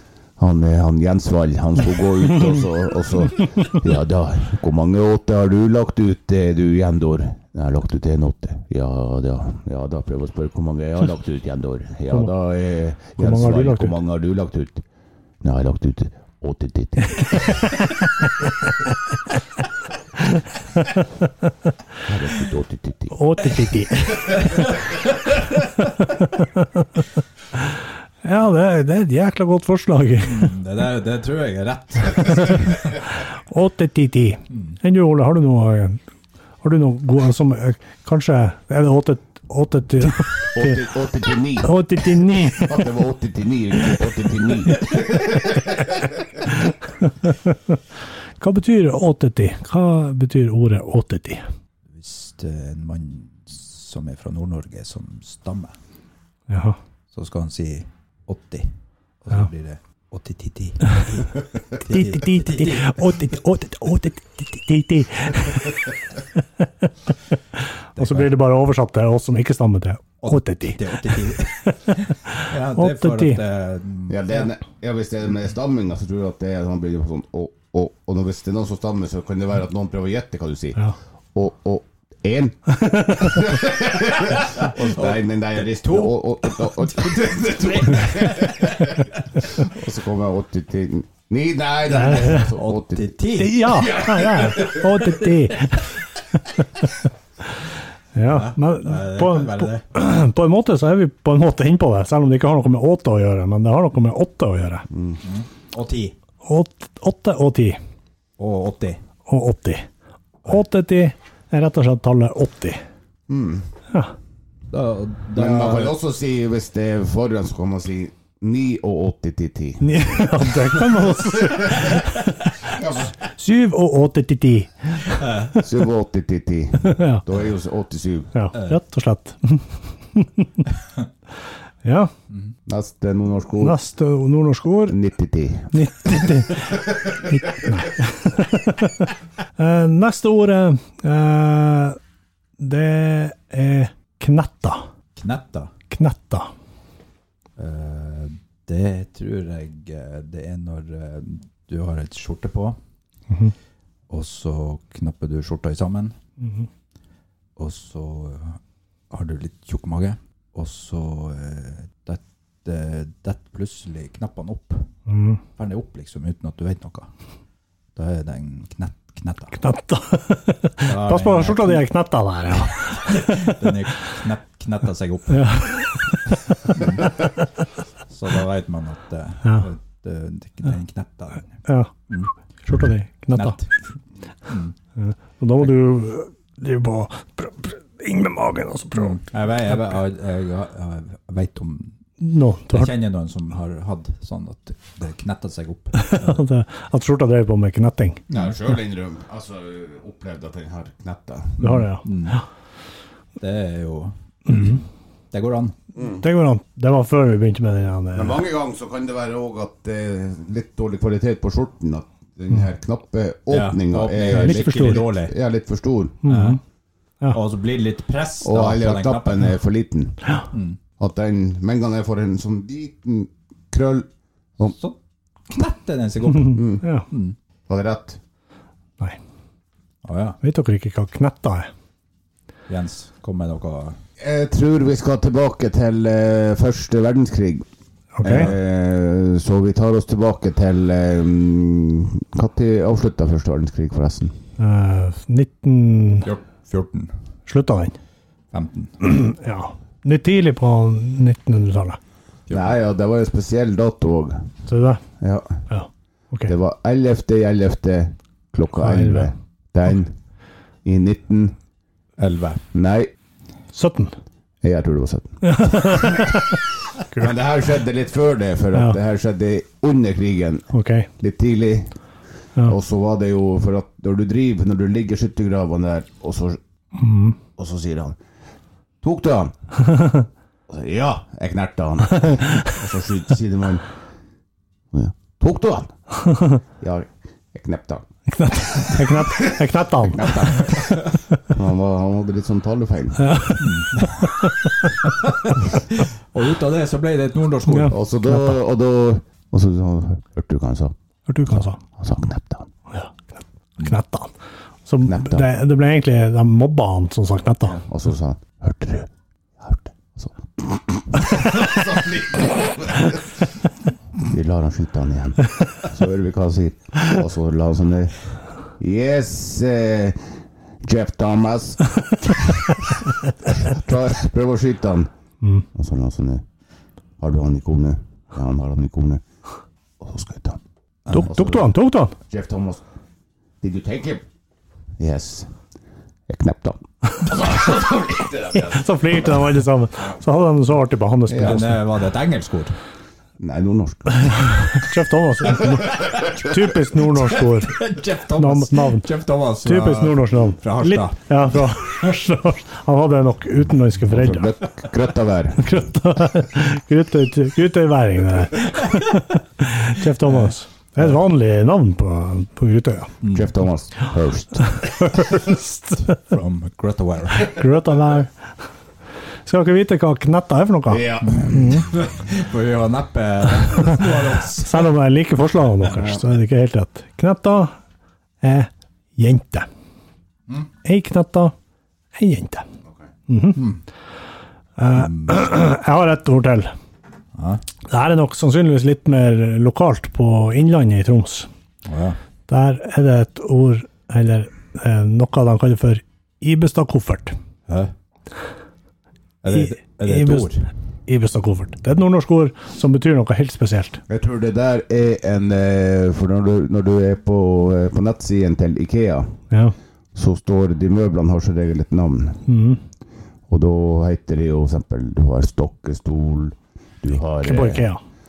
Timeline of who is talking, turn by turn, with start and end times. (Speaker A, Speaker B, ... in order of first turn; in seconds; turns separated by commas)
Speaker A: 0.4-14.8, Speaker B: 13.2-13.9, Speaker A: 15.4-17.7, Speaker A: 22.1-23.1, Speaker B: 23.1-24.8, Speaker B: 26.0-26.8, Speaker B: 28.2-30.5, Speaker C: 30.2-32.9, Speaker B: 33.5-36.0, Speaker C: 34.5-34.8, Speaker B: 36.6-40.8, Speaker A: 40.5-41.8, Speaker B: 41.6-42.8, Speaker A: 42.5-45.9, Speaker B: 47.0-47.8, Speaker B: 48.4-51.4, Speaker C: 51.9-55.8, Speaker B: 56.5-56.8, Speaker C: 57.1-58.7, Speaker C: 59.2-63.1, Speaker B: 61.9-65.9, Speaker C: 68.0-68.3, Speaker B: 68.0-73.4, Speaker C: 70.2-74.5, Speaker A: 74.1-80.8, Speaker A: 81.3-93.1, Speaker B: 82.9-83.4, Speaker C: 84.5-88.9, Speaker B: 92.0-92.5, Speaker C: 92.3-94.0, Speaker B: 93.4-97.0, Speaker A: 93.8-94.9, Speaker B: 98.2-104.9, Speaker C: 98.2-99.8, Speaker A: 104.9-105.2, Speaker C: 105.2-106.2, Speaker B: 106.4-107.8, Speaker C: 108.4-109.0, Speaker B: 109.3-109.9, Speaker B: 110.5-112.8, Speaker A: 113.3-113.7, Speaker C: 114.7-116.0, Speaker A: 115.4-120.9, Speaker B: 119.8-125.7, Speaker A: 121.5-121.9, Speaker A: 122.7-123.1, Speaker C: 125.2-125.5, Speaker A: 125.6-128.3, Speaker B: 126.8-127.2, Speaker B: 128.3-130.7, Speaker B: 131.8-132.1, Speaker A: 132.7-133.8, Speaker B: 133.6-135.0, Speaker A: 134.9-135.8, Speaker B: 135.7-142.0, Speaker B: 142.6-144.9, Speaker C: 145.2-145.7, Speaker B: 145.9-146.5, Speaker C: 147.6-152.8, Speaker C: 154.1-156.2, Speaker C: 157.6-164.9, Speaker B: 165.1-165.4, Speaker C: 165.6-167.1, Speaker C: 167.9-169.6, Speaker B: 169.6-173.7, Speaker C: 170.8-171.8, Speaker C: 172.6-175.6, Speaker B: 175.3-176.3, Speaker C: 176.7-177.1, Speaker B: 177.0-177.3, Speaker C: 178.1-182.3, Speaker B: 181.7-181.9, Speaker B: 182.7-183.6, Speaker C: 183.3-183.7, Speaker C: 184.5-184.7, Speaker B: 185.0-189.2, Speaker C: 188.9-192.0, Speaker B: 192.2-192.9, Speaker C: 192.7-196.4, Speaker B: 196.0-198.2, Speaker C: 198.3-198.5, Speaker A: 198.3-201.6, Speaker C: 201.6-202.4, Speaker B: 201.6-202.4, Speaker C: 203.4-205.8, Speaker A: 205.9-206.2, Speaker B: 206.2-208.4, Speaker A: 208.1-216.2, Speaker C: 213.5-215.3, Speaker B: 214.3-215.1, Speaker B: 216.2-216.6, Speaker C: 216.3-216.6, Speaker C: 217.3-219.5, Speaker A: 218.4-220.2, Speaker C: 220.5-220.8, Speaker A: 221.0-224.8, Speaker C: 225.5-227.4, Speaker A: 226.5-226.8, Speaker B: 226.8-227.1, Speaker A: 227.7-228.2, Speaker C: 230.0-230.4, Speaker B: 230.4-231.7, Speaker C: 232.7-234.0, Speaker A: 234.2-237.7, Speaker B: 238.2-238.5, Speaker A: 238.2-244.4, Speaker B: 244.6-246.3, Speaker C: 246.2-247.1, Speaker B: 247.5-248.0, Speaker C: 248.5-249.0, Speaker B: 249.0-252.0, Speaker C: 252.5-252.8, Speaker A: 252.5-254.5, Speaker B: 254.7-255.0, Speaker A: 255.2-255.6, Speaker B: 255.7-256.5, Speaker A: 256.5-260.2, Speaker B: 258.8-259.3, Speaker A: 260.8-261.6, Speaker C: 262.2-262.6, Speaker A: 262.7-263.1, Speaker B: 263.7-264.1, Speaker A: 264.6-266.3, Speaker B: 265.4-266.6, Speaker A: 267.1-270.7, Speaker B: 270.7-271.1, Speaker A: 271.2-271.9, Speaker A: 272.6-276.6, Speaker B: 277.0-277.4, Speaker A: 277.6-278.2, Speaker A: 279.0-279.5, Speaker A: 280.7-283.9, Speaker A: 284.9-285.9, Speaker A: 286.8-288.1, Speaker B: 288.3-290.3, Speaker A: 288.6-289.5, Speaker A: 290.1-291.0, Speaker A: 291.5-293.4, Speaker B: 293.2-294.7, Speaker C: 293.6-294.3, Speaker C: 295.0-298.0, Speaker B: 297.7-298.4, Speaker A: 297.9-300.9, Speaker B: 301.3-301.8, Speaker A: 301.5-302.7, Speaker B: 302.9-303.2, Speaker B: 303.8-304.3, Speaker B: 304.9-307.8, Speaker A: 305.1-305.5, Speaker A: 307.6-313.4, Speaker A: 314.2-322.7, Speaker A: 323.5-325.1, Speaker A: 325.8-326.4, Speaker A: 327.2-329.2, Speaker A: 330.0-330.6, Speaker B: 331.1-332.1, Speaker A: 331.2-332.9, Speaker A: 333.6-334.2, Speaker A: 335.0-335.6, Speaker A: 336.3-338.9, Speaker B: 338.5-341.8, Speaker A: 341.3-341.6, Speaker C: 341.4-342.8, Speaker A: 343.4-344.6, Speaker B: 344.2-347.8, Speaker A: 345.5-346.2, Speaker C: 347.3-351.2, Speaker B: 348.4-349.1, Speaker B: 349.6-354.5, Speaker A: 354.1-355.8, Speaker B: 355.6-363.1, Speaker C: 360.2-361.1, Speaker C: 363.2-363.5, Speaker A: 363.3-365.3, Speaker B: 364.8-366.0, Speaker C: 366.1-367.6, Speaker B: 367.5-368.5, Speaker B: 369.4-371.9, Speaker A: 370.9-371.8, Speaker C: 371.4-374.9, Speaker B: 374.6-377.8, Speaker A: 375.9-376.2, Speaker B: 378.4-379.7, Speaker B: 380.8-381.5, Speaker B: 382.1-382.6, Speaker B: 383.3-383.6, Speaker C: 383.5-383.8, Speaker B: 384.8-386.7, Speaker C: 384.9-385.4, Speaker C: 387.4-387.6, Speaker B: 387.9-391.5, Speaker C: 391.9-392.2, Speaker B: 392.5-397.4, Speaker C: 397.7-397.9, Speaker C: 399.4-400.7, Speaker B: 399.5-400.5, Speaker B: 401.1-404.0, Speaker A: 404.1-409.4, Speaker B: 409.5-409.8, Speaker A: 410.1-412.5, Speaker B: 412.5-412.8, Speaker A: 413.5-417.9, Speaker B: 417.4-418.0